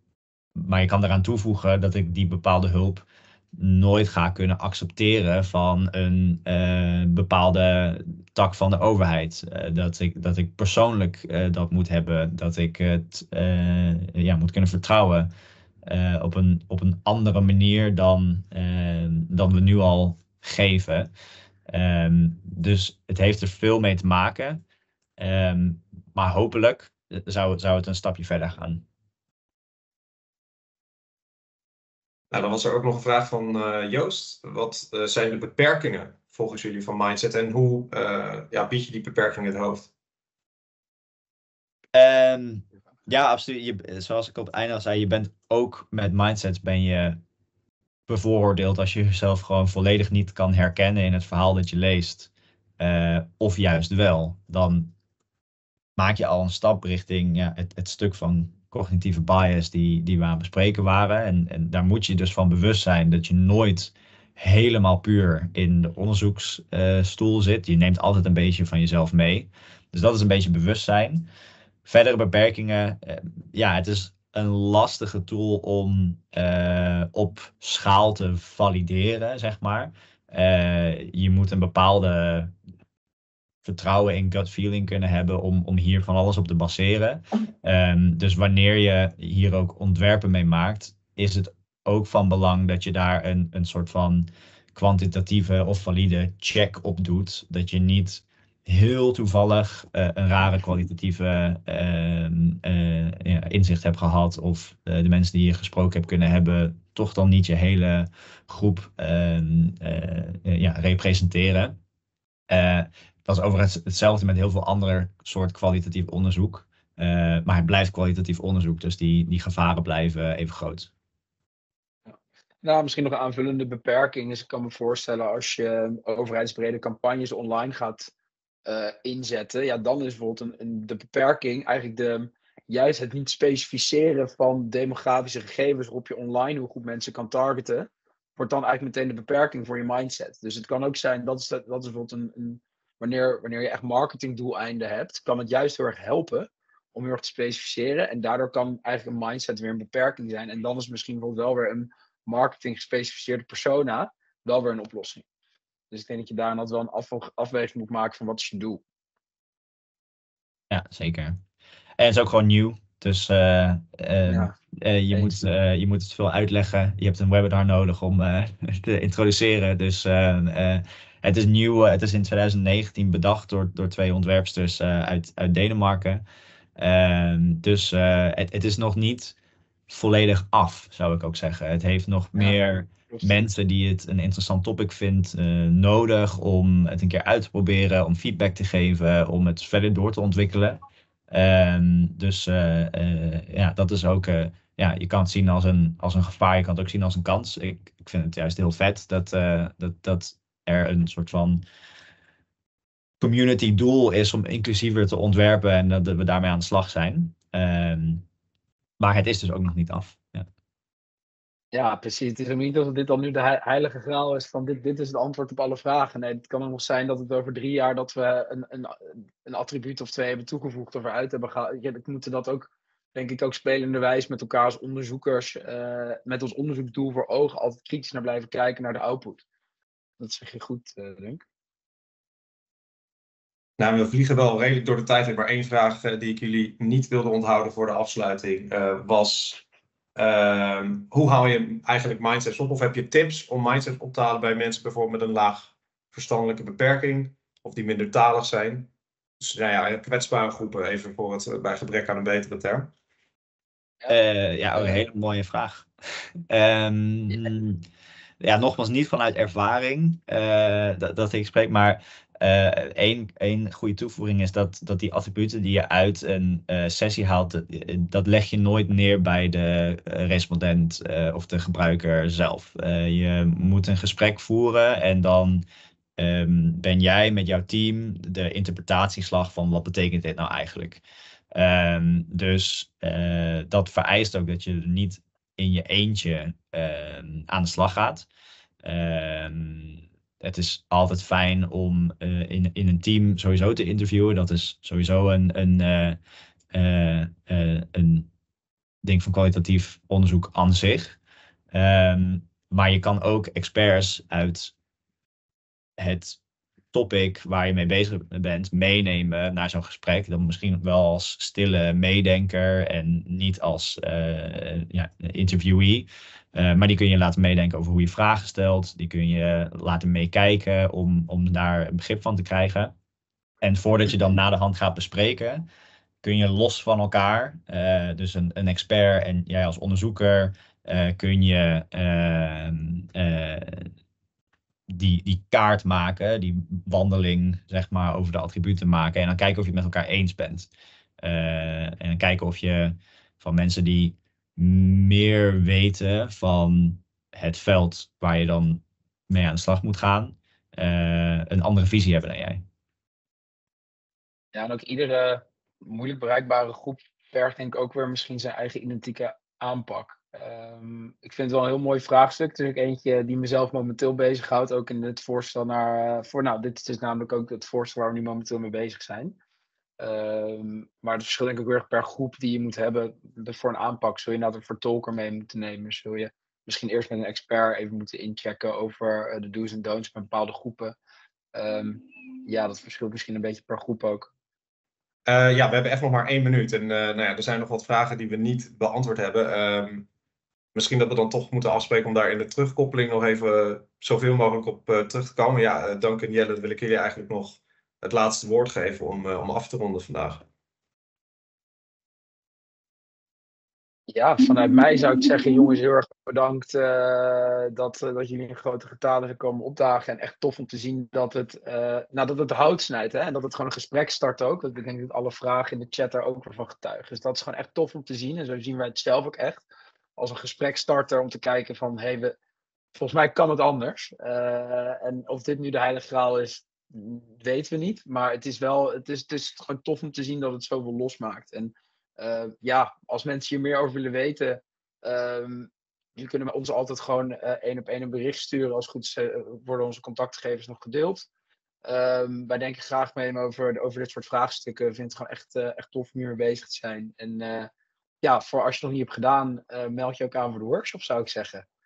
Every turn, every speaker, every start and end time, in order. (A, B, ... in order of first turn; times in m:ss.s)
0:00.6-0:03.0 A
0:03.6-0:15.3 A
0:15.8-0:21.1 A
0:21.7-0:24.6 A
0:25.2-0:28.8 A
0:32.3-0:39.9 B
0:41.9-0:47.2 A
0:48.1-0:54.9 A
0:56.0-1:11.3 A
1:11.8-1:22.5 A
1:23.6-1:51.8 A
1:52.5-2:00.9 A
2:02.1-2:08.1 C
2:08.6-2:35.2 C
2:35.9-2:38.8 C
2:40.7-2:41.4 A
2:42.0-2:56.2 A
2:44.3-2:44.5 C
2:56.8-2:59.4 A
2:59.9-3:21.6 A
3:02.4-3:03.4 C
3:23.2-3:28.2 A
3:29.0-3:30.4 A
3:31.7-3:49.4 C
3:50.2-3:51.4 C
3:53.8-3:59.6 B
4:00.2-4:12.9 B
4:14.1-4:15.9 A
4:14.7-4:15.0 C
4:16.5-4:17.8 A
4:18.4-4:35.6 A
4:36.2-4:41.0 A
4:41.5-4:48.3 A
4:48.8-4:56.2 A
4:56.7-4:58.3 A
4:59.0-5:01.2 A
5:01.7-5:04.7 A
5:06.0-5:06.4 A
5:06.9-5:22.9 A
5:23.6-5:25.6 A
5:26.2-5:33.9 A
5:34.9-5:40.7 A
5:41.2-5:52.6 A
5:54.5-6:09.4 C
6:10.0-6:21.0 C
6:21.5-6:24.3 C
6:25.2-6:30.1 B
6:30.7-6:40.4 B
6:44.1-6:59.6 C
7:00.2-7:02.4 C
7:02.9-7:21.3 C
7:21.8-7:27.7 C
7:28.2-7:31.6 C